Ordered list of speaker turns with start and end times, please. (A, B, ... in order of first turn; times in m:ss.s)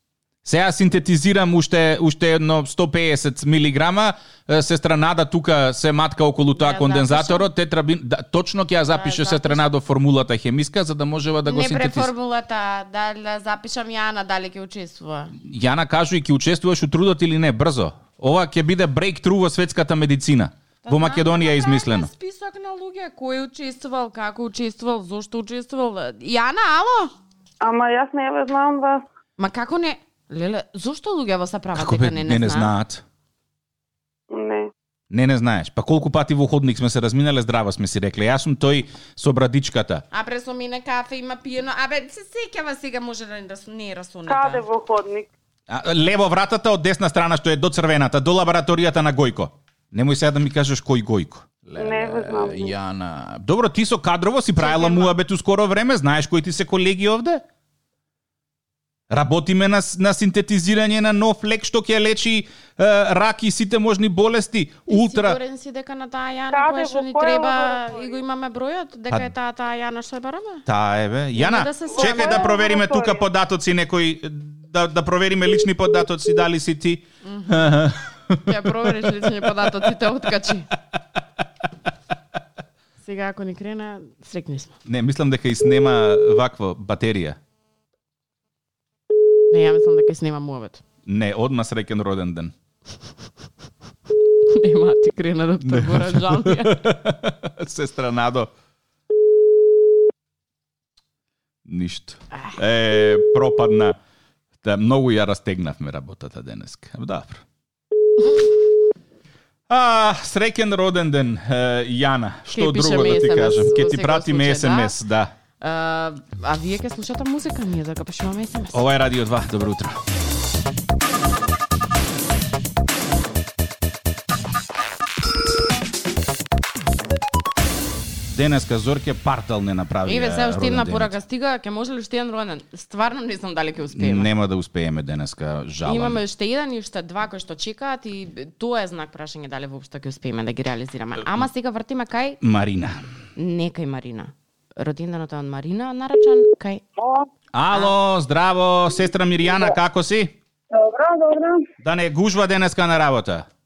0:00.4-0:12.1 A
0:06.6-0:07.5 B
0:08.9-0:09.6 B
0:11.4-0:15.3 B
0:15.4-0:22.1 A
0:20.8-0:27.1 B
0:27.6-0:29.0 C
0:29.4-0:32.7 B
0:31.7-0:33.0 A
0:34.3-0:34.7 C
0:35.1-0:40.0 A
0:40.1-0:44.6 B
0:44.3-0:45.3 C
0:45.7-0:57.4 A
0:51.8-0:52.7 C
0:54.6-0:55.1 B
0:59.1-1:05.4 A
1:04.9-1:10.6 B
1:06.5-1:08.2 C
1:10.6-1:19.3 A
1:11.4-1:12.5 B
1:11.9-1:13.2 C
1:17.2-1:17.6 B
1:18.4-1:20.7 B
1:23.0-1:24.7 B
1:24.8-1:27.4 A
1:29.5-1:30.8 B
1:31.0-1:32.5 A
1:34.5-1:36.8 B
1:35.6-1:38.5 A
1:41.6-1:44.0 A
1:44.6-1:47.4 A
1:49.7-1:55.3 A
1:52.5-1:55.0 B
1:55.6-1:58.8 B
1:58.7-2:00.0 A
2:08.3-2:11.2 A
2:10.0-2:14.3 B
2:13.9-2:16.2 A
2:15.8-2:22.4 B
2:22.4-2:23.0 A
2:23.4-2:26.8 B
2:27.0-2:27.3 C
2:27.5-2:30.3 A
2:30.7-2:31.6 C
2:31.8-2:33.4 A